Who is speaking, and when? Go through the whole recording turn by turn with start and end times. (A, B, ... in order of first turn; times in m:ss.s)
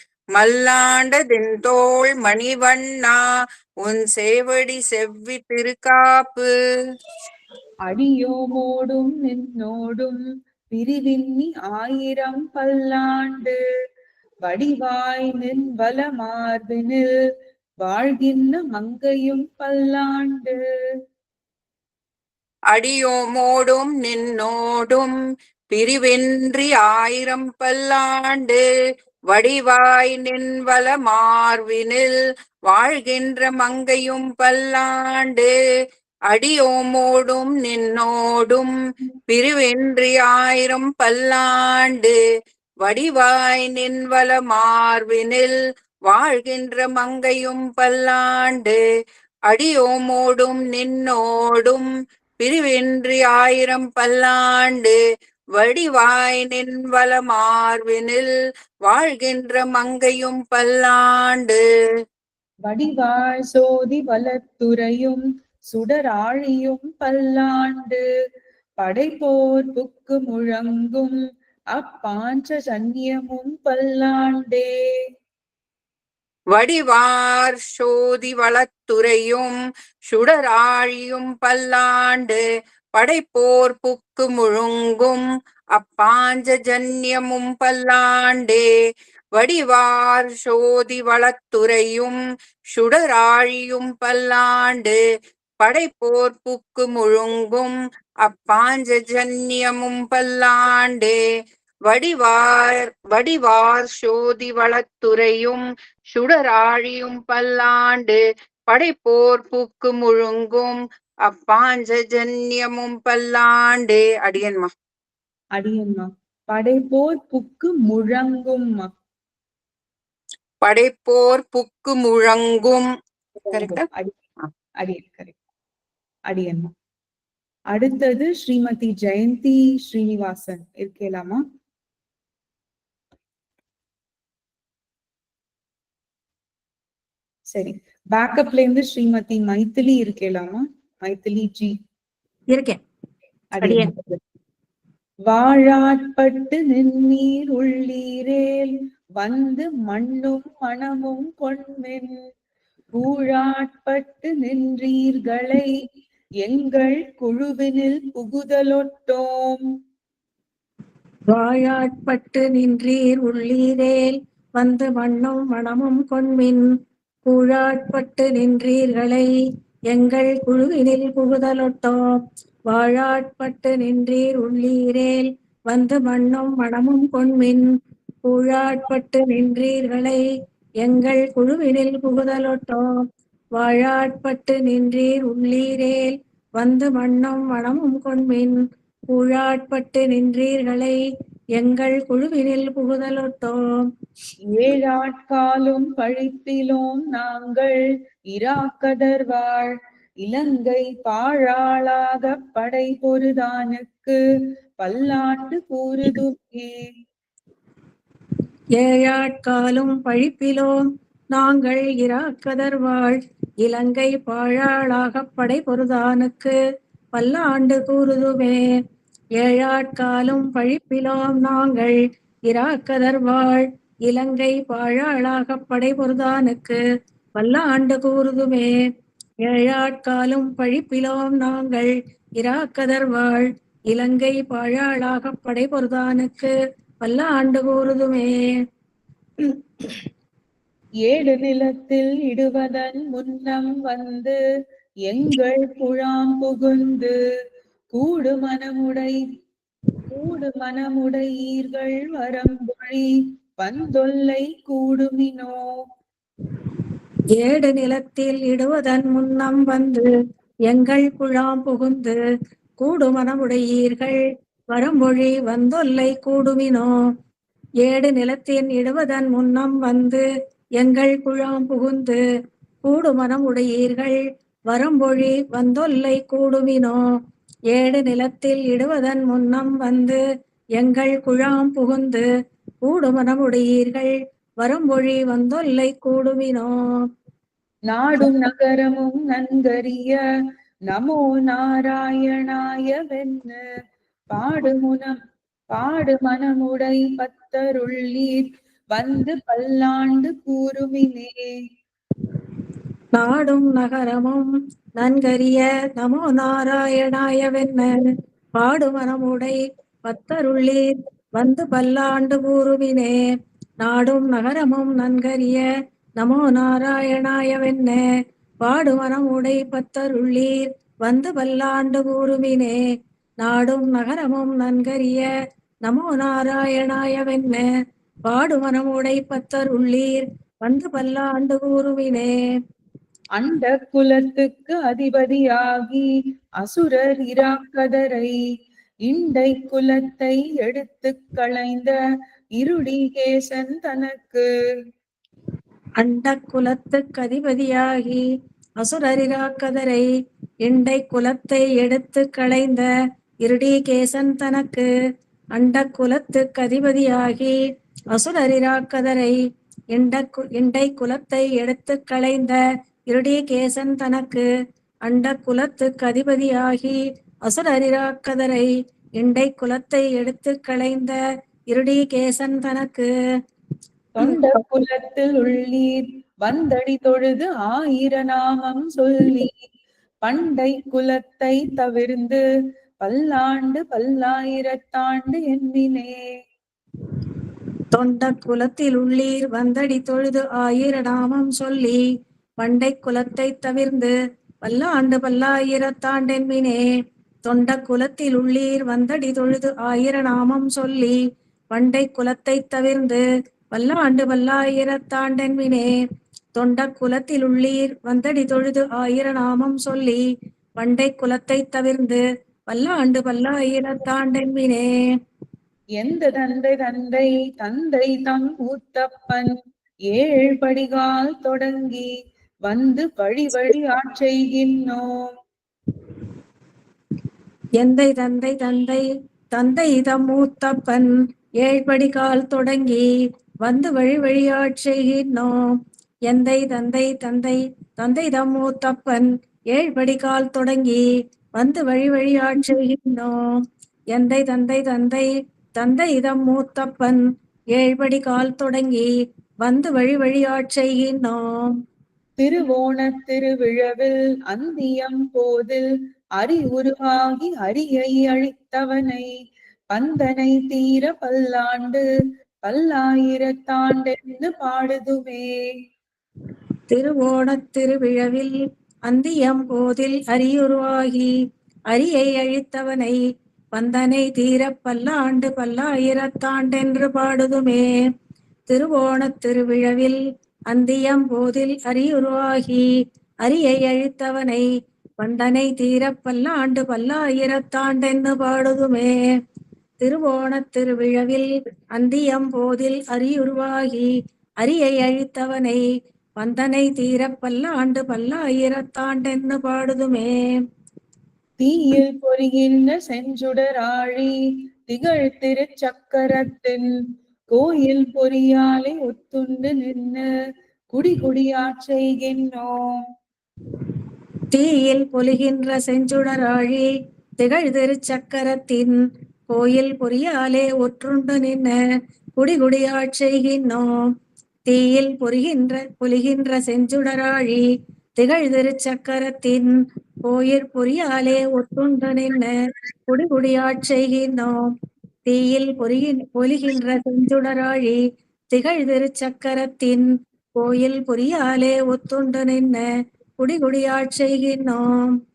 0:00.4-0:03.2 A
0:03.8-0:06.5 A
0:07.9-0:10.2 B
0:10.7-0:13.6 B
0:14.4-0:17.1 B
0:17.8-0:20.6 B
0:22.7-0:25.1 A
0:25.7-0:28.6 A
0:29.3-0:32.1 A
0:32.7-0:35.5 A
0:36.3-0:38.7 A
0:39.3-0:42.2 A
0:42.8-0:45.6 A
0:46.1-0:48.8 A
0:49.5-0:51.9 A
0:52.4-0:55.0 A
0:55.6-0:58.3 A
0:58.9-1:01.6 A
1:02.7-1:08.0 B
1:08.8-1:11.2 B
1:11.8-1:14.7 B
1:16.5-1:19.5 A
1:20.1-1:22.4 A
1:23.0-1:25.2 A
1:25.8-1:28.7 A
1:29.4-1:32.2 A
1:32.8-1:35.0 A
1:35.6-1:41.2 A
1:41.9-1:54.7 A
1:55.6-1:58.9 B
2:00.6-2:02.9 A
2:03.5-2:04.1 B
2:03.5-2:03.9 A
2:04.8-2:05.3 B
2:06.3-2:06.7 B
2:07.7-2:11.4 B
2:17.5-2:21.8 B
2:22.5-2:22.8 C
2:23.6-2:24.0 B
2:23.6-2:23.9 C
2:25.3-2:32.1 B
2:33.0-2:35.7 B
2:36.4-2:39.6 B
2:41.3-2:46.6 C
2:47.3-2:49.3 C
2:49.9-2:52.0 C
2:52.7-2:57.6 C
2:58.3-3:00.2 C
3:00.8-3:02.9 C
3:03.6-3:08.6 C
3:09.1-3:11.0 C
3:11.6-3:13.6 C
3:14.5-3:17.8 B
3:18.3-3:19.7 B
3:20.2-3:24.2 B
3:24.8-3:26.9 B
3:28.8-3:30.8 C
3:31.3-3:36.6 C
3:37.2-3:38.6 C
3:39.4-3:42.0 C
3:42.5-3:46.8 C
3:47.4-3:48.7 C
3:49.5-3:58.3 C
4:01.0-4:04.4 B
4:05.1-4:07.2 B
4:07.9-4:09.2 B
4:10.1-4:13.1 B
4:13.6-4:15.6 B
4:17.4-4:20.1 C
4:20.7-4:22.2 C
4:22.8-4:24.2 C
4:24.7-4:26.9 C
4:27.8-4:30.2 C
4:30.8-4:32.2 C
4:32.8-4:34.2 C
4:34.7-4:37.0 C
4:37.7-4:40.2 C
4:40.8-4:42.2 C
4:42.8-4:46.7 C
4:47.9-4:50.2 B
4:50.9-4:53.6 B
4:54.3-4:55.2 B
4:55.7-5:01.5 B
5:03.2-5:04.5 C
5:05.0-5:08.0 C
5:08.6-5:10.9 C
5:11.4-5:13.2 C
5:13.8-5:15.6 C
5:16.2-5:18.0 C
5:18.6-5:22.8 C
5:23.4-5:25.3 C
5:25.9-5:27.6 C
5:28.3-5:32.3 C
5:33.4-5:36.1 B
5:36.6-5:38.4 B
5:39.1-5:42.0 B
5:42.6-5:44.4 B
5:46.0-5:48.2 C
5:48.8-5:50.0 C
5:50.7-5:52.9 C
5:53.4-5:54.9 C
5:55.6-5:57.6 C
5:58.1-5:59.4 C
5:59.9-6:04.5 C
6:05.1-6:11.2 C
6:11.7-6:13.1 C
6:14.2-6:19.6 B
6:20.2-6:22.4 B
6:23.0-6:26.2 B
6:27.9-6:32.0 C
6:32.6-6:34.1 C
6:34.6-6:36.8 C
6:37.5-6:41.2 C
6:41.7-6:43.2 C
6:43.7-6:45.9 C
6:46.6-6:50.2 C
6:50.8-6:54.9 C
6:56.0-6:59.5 B
7:00.1-7:02.1 B
7:02.7-7:05.3 B
7:07.8-7:09.0 C
7:09.5-7:13.1 C
7:13.6-7:15.6 C
7:16.3-7:21.0 C
7:21.6-7:23.4 C
7:24.1-7:25.3 C
7:25.8-7:27.2 C
7:27.8-7:29.1 C
7:29.6-7:31.7 C
7:32.4-7:35.8 B
7:36.4-7:39.3 B
7:39.9-7:42.0 B
7:42.6-7:45.5 B
7:46.9-7:48.6 C
7:49.1-7:51.3 C
7:51.9-7:53.2 C
7:53.8-7:57.9 C
7:58.7-8:00.2 C
8:00.7-8:02.9 C
8:03.4-8:04.7 C
8:05.2-8:09.1 C
8:10.0-8:14.1 C
8:14.6-8:15.8 C
8:16.4-8:20.3 C
8:21.6-8:24.3 B
8:24.9-8:26.9 B
8:27.5-8:30.3 B
8:30.9-8:32.8 B
8:34.5-8:36.9 C
8:37.4-8:39.0 C
8:39.5-8:41.8 C
8:42.4-8:43.9 C
8:44.7-8:47.7 C
8:48.2-8:49.7 C
8:50.3-8:52.5 C
8:53.1-8:54.6 C
8:55.3-8:58.0 C
8:58.5-9:02.9 C
9:03.4-9:05.1 C